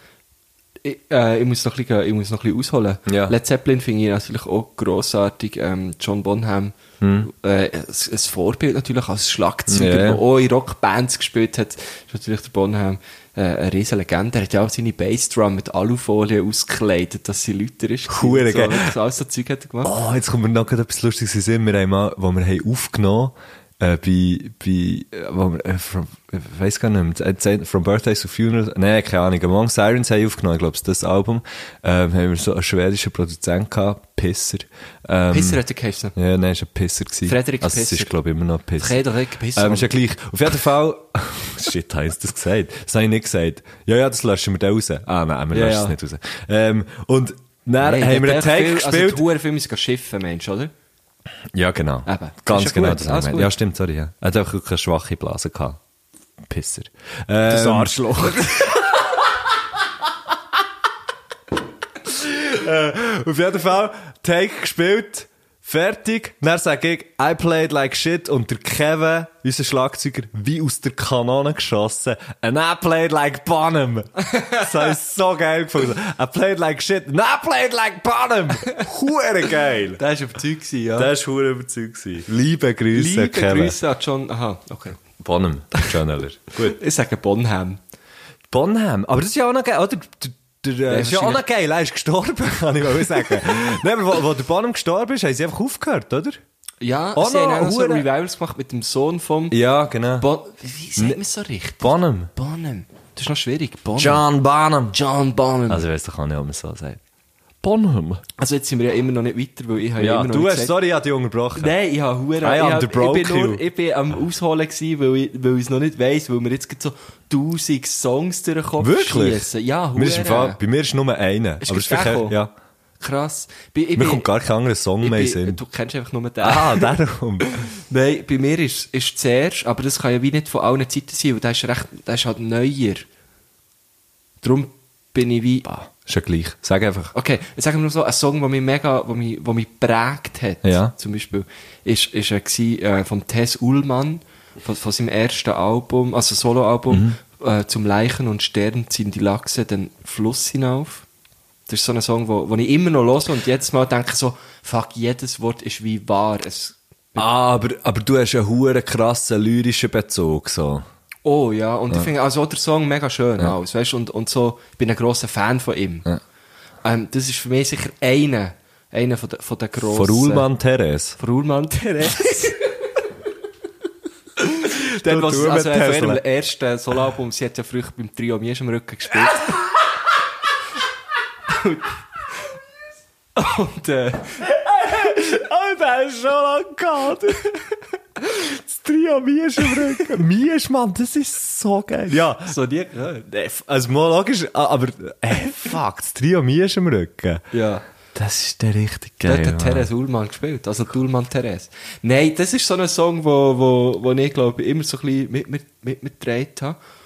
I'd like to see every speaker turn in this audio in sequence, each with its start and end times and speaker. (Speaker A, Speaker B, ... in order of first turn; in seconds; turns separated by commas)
Speaker A: 0.8-19.9, Speaker B: 3.1-3.4, Speaker B: 7.0-7.3, Speaker B: 9.7-10.2, Speaker B: 18.1-18.9, Speaker B: 19.8-35.6, Speaker A: 35.3-36.1, Speaker B: 36.2-39.0, Speaker A: 37.3-38.1, Speaker A: 38.8-40.0, Speaker B: 39.5-49.2, Speaker A: 45.5-46.0, Speaker A: 47.8-50.7, Speaker B: 51.5-55.8, Speaker A: 52.1-53.5, Speaker B: 56.4-58.8, Speaker A: 57.5-58.7, Speaker B: 62.0-80.0, Speaker A: 74.3-74.6, Speaker A: 80.0-81.1, Speaker B: 81.0-83.8, Speaker A: 82.9-85.0, Speaker B: 85.2-86.8, Speaker A: 86.6-87.8, Speaker B: 88.5-96.4, Speaker A: 90.9-91.4, Speaker A: 96.8-99.6, Speaker B: 97.2-98.1, Speaker B: 99.5-100.3, Speaker A: 100.2-104.3, Speaker B: 101.8-102.3, Speaker B: 104.0-105.0, Speaker A: 104.9-105.8, Speaker B: 105.7-107.0, Speaker B: 107.6-108.2, Speaker A: 108.4-110.7, Speaker B: 110.0-111.7, Speaker A: 111.6-120.6, Speaker B: 112.4-113.6, Speaker B: 118.8-122.5, Speaker A: 121.6-122.4, Speaker A: 123.0-124.3, Speaker B: 124.0-125.6, Speaker A: 125.0-126.9, Speaker B: 126.4-127.6, Speaker A: 127.5-133.1, Speaker A: 134.4-135.7, Speaker B: 135.7-137.1, Speaker A: 137.1-151.1, Speaker B: 140.6-140.9, Speaker B: 146.9-147.2, Speaker A: 151.7-157.3, Speaker B: 157.2-160.8, Speaker A: 161.2-166.1, Speaker A: 166.8-170.5, Speaker B: 169.8-171.2, Speaker A: 171.2-172.8, Speaker A: 174.4-179.7, Speaker B: 175.0-176.2, Speaker A: 181.5-182.0, Speaker A: 183.4-184.5, Speaker B: 184.5-187.5, Speaker B: 188.3-192.5, Speaker A: 192.4-193.3, Speaker B: 193.3-197.4, Speaker A: 197.5-197.8, Speaker B: 198.2-199.9, Speaker A: 199.2-206.8